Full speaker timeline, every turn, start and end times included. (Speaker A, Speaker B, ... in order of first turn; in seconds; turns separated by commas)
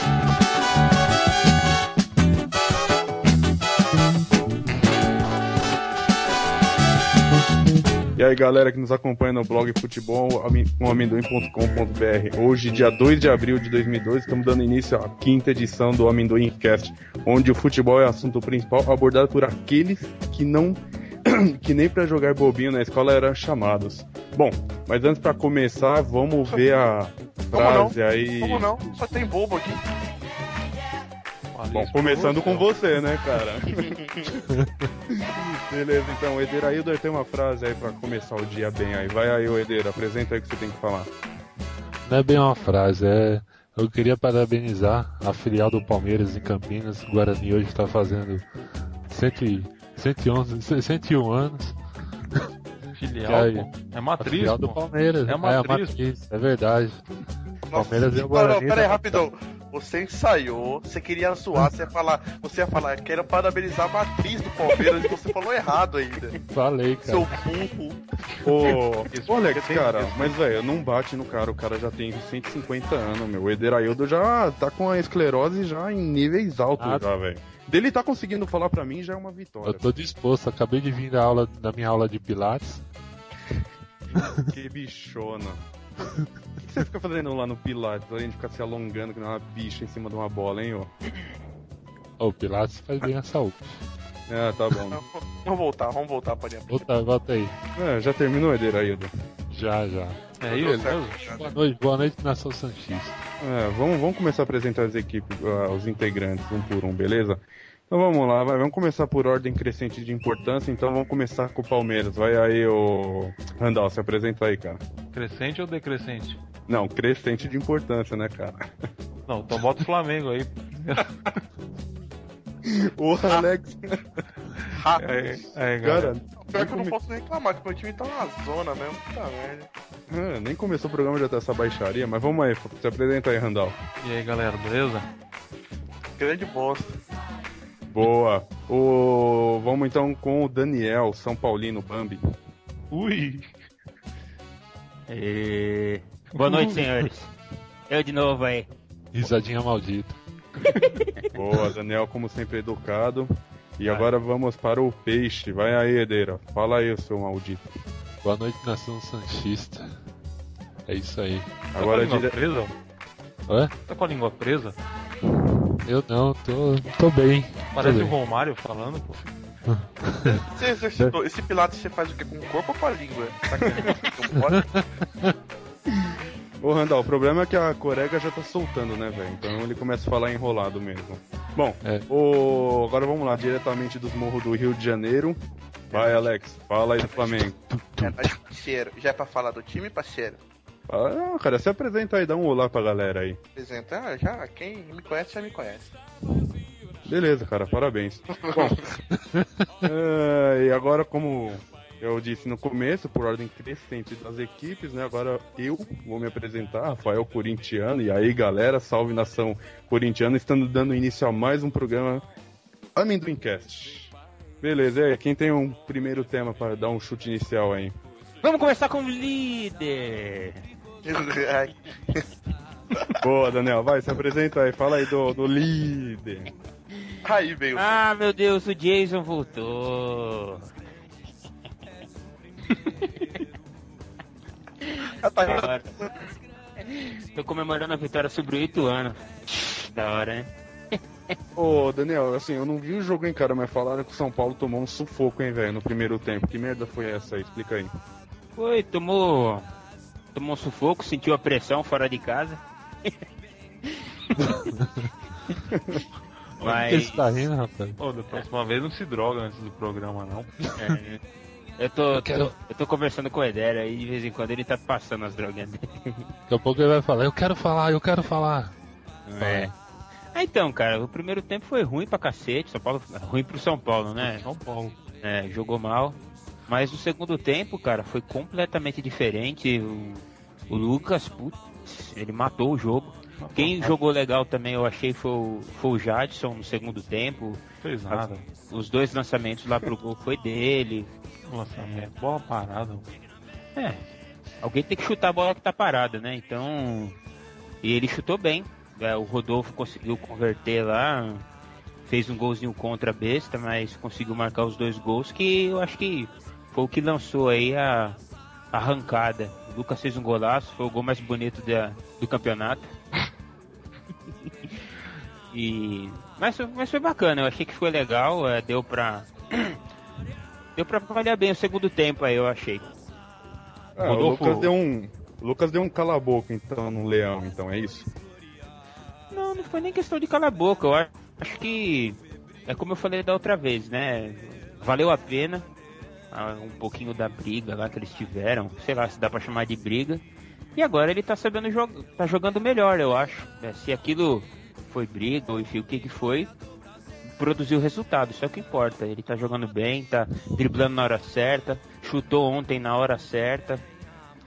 Speaker A: 8.2-28.8, Speaker B: 27.5-29.8, Speaker C: 31.5-32.7, Speaker A: 31.7-34.0, Speaker B: 33.8-34.3, Speaker A: 35.1-41.1, Speaker D: 42.0-48.5, Speaker D: 49.1-51.8, Speaker C: 53.0-56.0, Speaker D: 53.2-57.0, Speaker B: 57.7-66.4, Speaker D: 57.7-59.2, Speaker D: 66.5-67.3, Speaker B: 67.0-68.0, Speaker A: 68.4-79.9, Speaker C: 68.7-70.4, Speaker D: 76.8-77.0, Speaker D: 79.7-82.8, Speaker D: 84.2-84.5, Speaker A: 84.3-85.6, Speaker A: 86.6-90.9, Speaker D: 92.2-93.8, Speaker A: 94.3-95.0, Speaker B: 94.8-96.9, Speaker D: 96.7-97.5, Speaker A: 97.8-99.1, Speaker D: 99.5-100.2, Speaker C: 100.4-101.3, Speaker B: 100.5-101.6, Speaker D: 101.3-103.2, Speaker A: 103.4-114.8, Speaker C: 115.1-116.4, Speaker A: 116.7-118.7, Speaker C: 119.3-121.1, Speaker A: 122.6-124.2, Speaker B: 124.7-125.4, Speaker C: 125.0-126.1, Speaker A: 125.8-127.0, Speaker B: 126.4-129.7, Speaker A: 130.1-133.8, Speaker C: 134.0-135.1, Speaker B: 136.2-137.0, Speaker A: 137.9-142.2, Speaker C: 142.9-143.5, Speaker E: 145.1-147.3, Speaker C: 146.4-147.0, Speaker E: 147.9-148.7, Speaker D: 149.1-150.2, Speaker E: 150.7-151.0, Speaker A: 151.3-157.7, Speaker D: 158.2-159.8, Speaker D: 160.9-161.7, Speaker A: 161.7-162.3, Speaker C: 161.8-162.7, Speaker C: 163.9-164.8, Speaker D: 165.8-168.1, Speaker C: 167.7-169.3, Speaker D: 169.7-170.4, Speaker B: 170.2-174.8, Speaker A: 173.6-174.0, Speaker D: 174.5-175.3, Speaker A: 176.6-185.4, Speaker A: 185.9-187.6, Speaker B: 185.9-186.2, Speaker D: 187.7-188.2, Speaker B: 188.0-190.4, Speaker A: 190.9-193.4, Speaker B: 193.6-195.9, Speaker A: 197.1-198.9, Speaker A: 199.8-212.2, Speaker A: 213.0-217.9, Speaker E: 218.4-220.6, Speaker B: 221.1-222.2, Speaker A: 223.2-226.5, Speaker B: 227.2-228.0, Speaker E: 227.8-230.7, Speaker E: 235.0-236.0, Speaker B: 235.1-236.1, Speaker E: 236.8-241.0, Speaker A: 241.5-247.9, Speaker E: 248.6-249.7, Speaker E: 250.3-253.2, Speaker D: 254.4-255.1, Speaker C: 256.6-256.9, Speaker E: 256.6-257.2, Speaker D: 256.6-258.0, Speaker C: 258.0-260.5, Speaker D: 260.7-261.0, Speaker E: 260.8-261.2, Speaker E: 261.8-265.9, Speaker D: 262.1-262.5, Speaker D: 266.5-268.7, Speaker A: 269.3-269.7, Speaker E: 269.4-269.7, Speaker E: 270.3-274.4, Speaker C: 274.2-275.0, Speaker E: 275.2-291.1, Speaker C: 283.4-284.0, Speaker C: 287.8-288.5, Speaker C: 291.5-293.1, Speaker E: 291.8-292.1, Speaker E: 293.8-294.0, Speaker E: 294.6-297.2, Speaker E: 297.8-301.4, Speaker E: 302.1-308.2, Speaker E: 308.7-312.9, Speaker E: 315.5-319.8, Speaker E: 320.8-322.9, Speaker A: 324.0-328.1, Speaker C: 324.0-324.7, Speaker E: 329.3-335.7, Speaker E: 336.3-340.2, Speaker E: 340.8-346.5, Speaker E: 347.4-353.8